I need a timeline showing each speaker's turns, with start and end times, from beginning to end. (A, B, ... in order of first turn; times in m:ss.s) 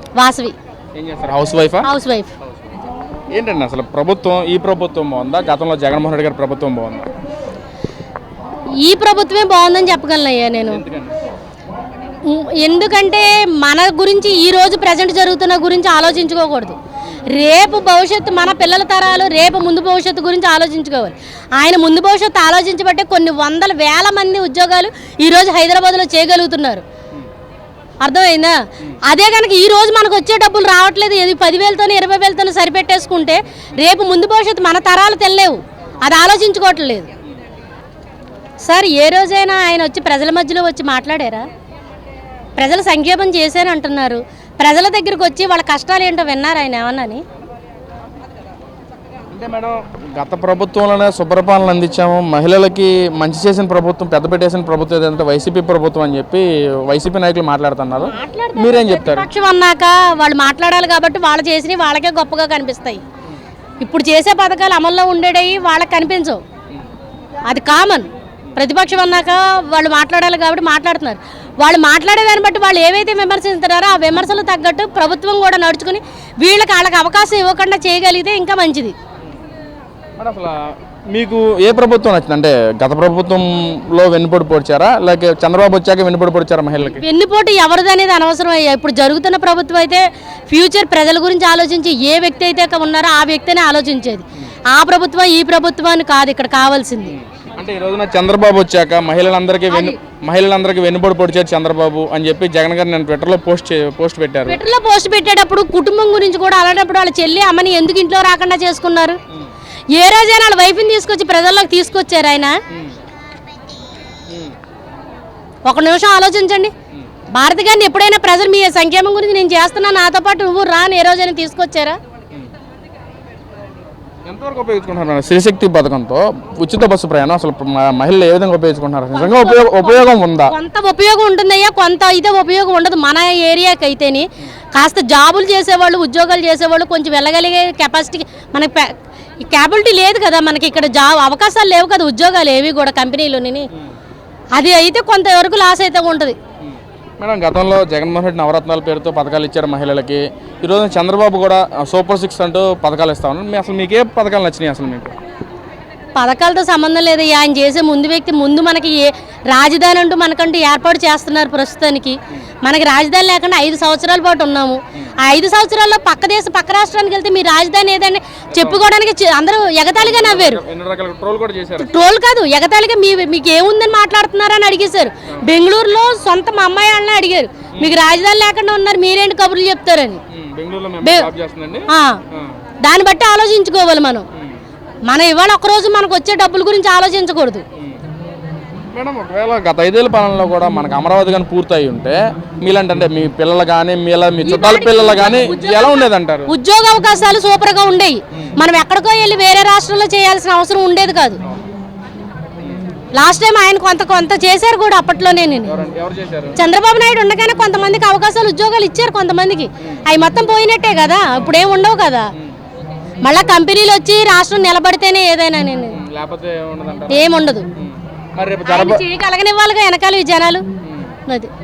0:00.2-0:00.6 A
0:01.0-0:01.9 B
0:01.8-0:02.3 A
0:03.3-0:07.0 B
0:08.8-0:10.8 A
0:10.7-0:11.1 B
0:12.2-0:16.8 A
0:17.3-0:26.8 A
0:28.0-0:37.1 A
0:38.6-0:41.5 A
0:42.6-0:47.2 A
0:49.3-0:59.3 B
0:58.0-1:03.0 A
1:03.8-1:06.4 A
1:07.5-1:19.0 A
1:20.2-1:27.0 B
1:26.9-1:37.1 A
1:37.0-1:44.6 B
1:39.7-1:40.0 A
1:44.5-1:49.2 A
1:49.9-1:52.6 A
1:55.7-1:56.7 A
1:57.3-2:02.0 A
2:04.2-2:10.5 B
2:09.1-2:23.7 A
2:24.5-2:26.4 A
2:26.6-2:35.2 B
2:36.2-2:50.6 A
2:48.5-2:48.8 B
2:50.0-2:51.9 B
2:51.8-3:00.2 A
3:00.3-3:02.5 B
3:01.0-3:01.3 A
3:01.9-3:02.2 A
3:02.8-3:04.2 A
3:05.1-3:07.6 A
3:08.9-3:16.5 B
3:14.4-3:21.4 A
3:23.1-3:25.8 A
3:25.7-3:26.6 B
3:26.6-3:32.3 A
3:33.2-3:36.0 A
3:35.9-3:39.0 B
3:37.1-3:37.7 A
3:38.7-3:40.6 A
3:40.8-3:41.2 B